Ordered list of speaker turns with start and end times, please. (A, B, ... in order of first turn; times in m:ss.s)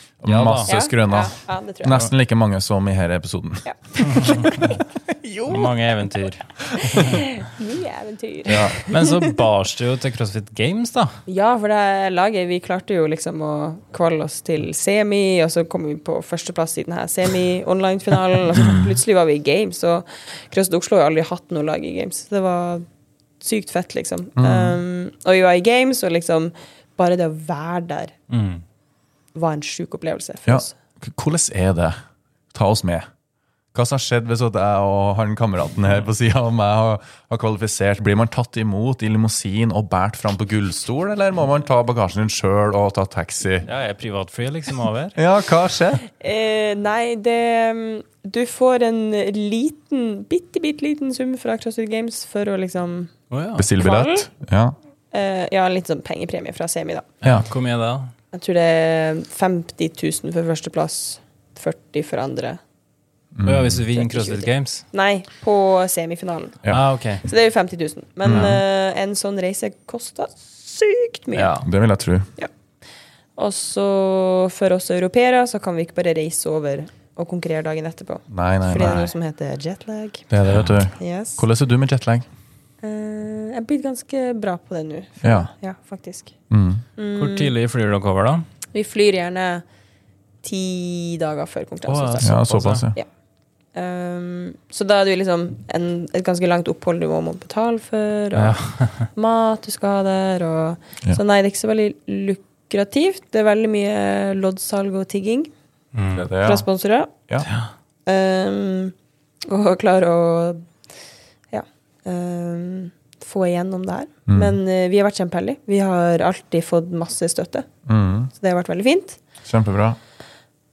0:00.2-0:03.6 A
0:00.2-0:00.7 B
0:00.7-0:02.1 C
0:03.6-0:05.8 C
0:04.1-0:04.7 B
0:05.4-0:07.2 B
0:06.7-0:09.4 C
0:08.5-0:08.8 A
0:08.9-0:11.2 B
0:11.3-0:22.8 C
0:23.4-0:28.1 C
0:24.4-0:24.8 A
0:28.3-0:28.6 B
0:29.3-0:30.7 C
0:30.4-0:32.0 A
0:32.5-0:33.0 A
0:33.7-0:43.7 A
0:43.6-0:45.2 B
0:45.1-0:46.0 A
0:46.1-0:53.1 C
0:53.3-0:53.7 B
0:53.5-0:54.7 A
0:53.8-0:54.3 C
0:55.1-0:57.1 C
0:57.2-0:58.1 B
0:58.3-1:02.6 C
1:03.3-1:03.8 A
1:03.4-1:04.8 B
1:03.9-1:06.6 C
1:06.7-1:07.2 B
1:07.2-1:11.6 C
1:08.2-1:08.6 A
1:08.3-1:08.6 B
1:11.3-1:11.6 B
1:11.5-1:12.3 A
1:13.4-1:20.3 C
1:18.3-1:19.1 A
1:20.3-1:22.2 A
1:21.0-1:21.4 C
1:22.8-1:26.3 C
1:25.2-1:25.5 A
1:26.5-1:26.8 A
1:27.0-1:27.5 C
1:27.2-1:28.4 B
1:28.7-1:29.6 C
1:30.4-1:32.4 C
1:31.9-1:32.9 B
1:32.2-1:33.0 A
1:33.7-1:38.6 C
1:38.3-1:39.1 B
1:39.1-1:45.5 C
1:45.9-1:46.3 B
1:46.1-1:46.6 A
1:46.4-1:47.1 C
1:47.4-1:47.7 B
1:48.0-1:48.9 C
1:49.4-1:50.6 C
1:51.5-1:57.7 C
1:54.3-1:54.6 A
1:57.8-1:58.3 A
1:58.3-1:59.2 C
1:59.4-2:00.0 A